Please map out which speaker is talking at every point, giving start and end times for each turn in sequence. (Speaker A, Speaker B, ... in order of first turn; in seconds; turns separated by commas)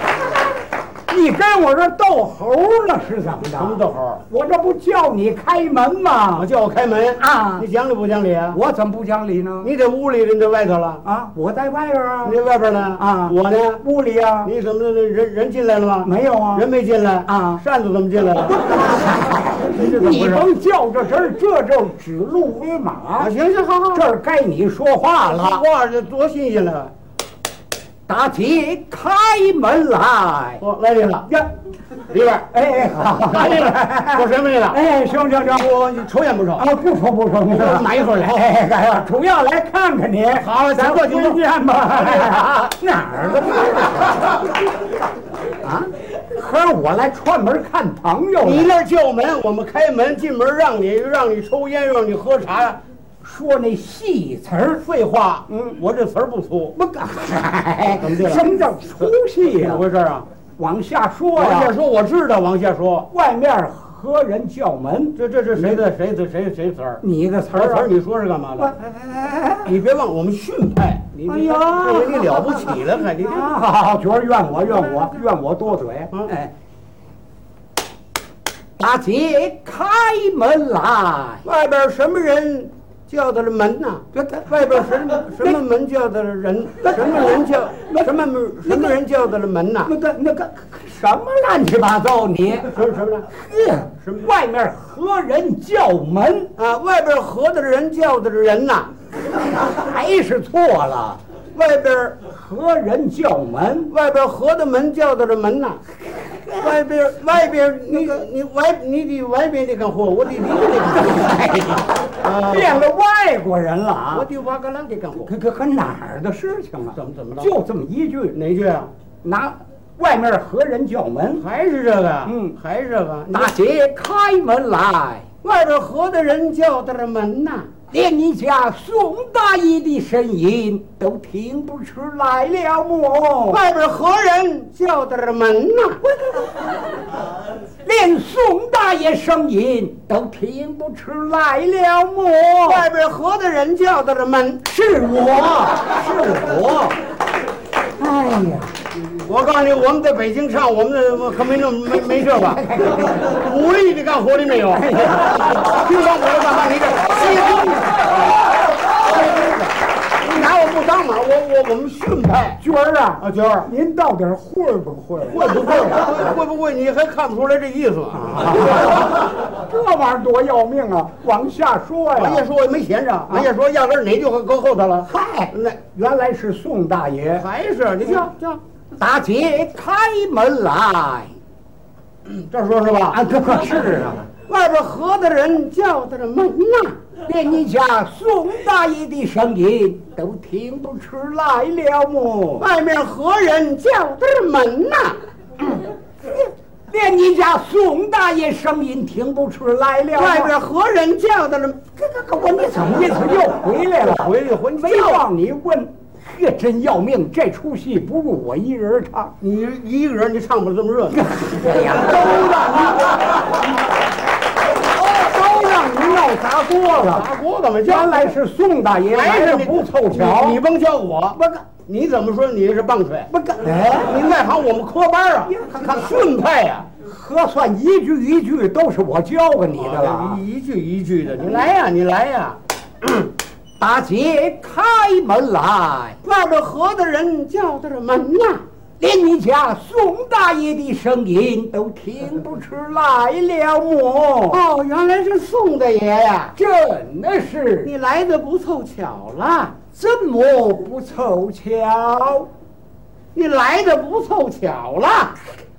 Speaker A: 1.1-6.5, Speaker B: 3.6-4.2, Speaker B: 6.4-8.6, Speaker A: 7.2-7.7, Speaker A: 8.5-9.7, Speaker B: 9.6-11.0, Speaker A: 11.0-12.4, Speaker B: 12.2-13.8, Speaker A: 13.0-14.5, Speaker B: 14.4-18.8, Speaker A: 16.0-16.7, Speaker A: 17.2-17.6, Speaker A: 18.7-23.3, Speaker B: 19.7-20.5, Speaker B: 23.2-24.1, Speaker A: 23.9-25.7, Speaker B: 25.3-26.9, Speaker A: 28.1-30.6, Speaker B: 30.6-31.3, Speaker B: 32.1-32.5, Speaker A: 32.5-35.7, Speaker B: 33.3-34.8, Speaker B: 35.5-36.7, Speaker A: 36.5-44.3, Speaker B: 37.5-38.4, Speaker B: 40.4-41.3, Speaker B: 42.0-42.3, Speaker A: 45.6-48.8, Speaker B: 48.5-52.8, Speaker A: 53.2-54.9, Speaker B: 54.8-56.8, Speaker A: 55.5-55.8, Speaker A: 56.7-59.9, Speaker B: 58.0-58.5, Speaker B: 59.0-60.3, Speaker A: 60.6-61.7, Speaker B: 61.4-63.1, Speaker A: 63.1-65.9, Speaker B: 65.2-68.7, Speaker A: 67.0-67.9, Speaker A: 68.6-69.7, Speaker B: 69.7-73.5, Speaker A: 71.3-76.5, Speaker A: 78.8-81.4, Speaker B: 81.4-89.9, Speaker A: 84.1-85.6, Speaker A: 86.8-89.0, Speaker A: 89.8-96.5, Speaker B: 92.7-93.3, Speaker B: 94.0-94.3, Speaker B: 96.6-98.9, Speaker A: 99.4-103.9, Speaker B: 103.9-105.8, Speaker A: 106.1-106.9, Speaker B: 106.6-111.3, Speaker A: 110.9-114.3, Speaker B: 112.2-112.8, Speaker B: 114.1-115.3, Speaker A: 115.1-118.4, Speaker B: 116.9-117.5, Speaker B: 118.3-118.9, Speaker A: 119.2-121.5, Speaker B: 121.4-123.5, Speaker A: 122.2-122.6, Speaker A: 123.3-125.3, Speaker B: 125.4-127.7, Speaker A: 127.9-133.6, Speaker B: 133.5-136.0, Speaker A: 137.8-142.9, Speaker B: 142.6-144.6, Speaker A: 144.7-147.0, Speaker A: 148.0-148.8, Speaker B: 149.1-152.6, Speaker A: 151.9-153.4, Speaker B: 153.4-154.9, Speaker A: 154.7-155.5, Speaker B: 155.5-158.0, Speaker A: 157.0-158.0, Speaker B: 160.2-162.6, Speaker A: 162.6-166.1, Speaker B: 163.2-163.7, Speaker B: 165.3-168.9, Speaker A: 168.2-172.5, Speaker B: 172.2-175.8, Speaker A: 175.1-177.5, Speaker B: 177.3-178.6, Speaker A: 179.0-181.4, Speaker B: 182.2-183.2, Speaker A: 183.1-184.3, Speaker B: 184.4-187.0, Speaker A: 187.2-192.7, Speaker B: 192.6-195.2, Speaker A: 196.9-200.6, Speaker B: 200.2-201.8, Speaker A: 201.9-209.3, Speaker B: 204.0-205.2, Speaker B: 209.4-211.3, Speaker A: 211.1-213.2, Speaker A: 214.9-220.6, Speaker B: 217.1-218.4, Speaker B: 219.2-223.3, Speaker A: 221.3-221.7, Speaker A: 223.3-224.3, Speaker B: 224.0-226.9, Speaker A: 225.5-226.2, Speaker A: 227.0-230.4, Speaker B: 229.8-232.6, Speaker A: 233.8-236.2, Speaker B: 236.2-238.6, Speaker A: 239.0-244.6, Speaker B: 244.5-246.5, Speaker A: 246.6-247.9, Speaker B: 247.8-249.8, Speaker A: 249.8-252.5, Speaker B: 253.3-255.4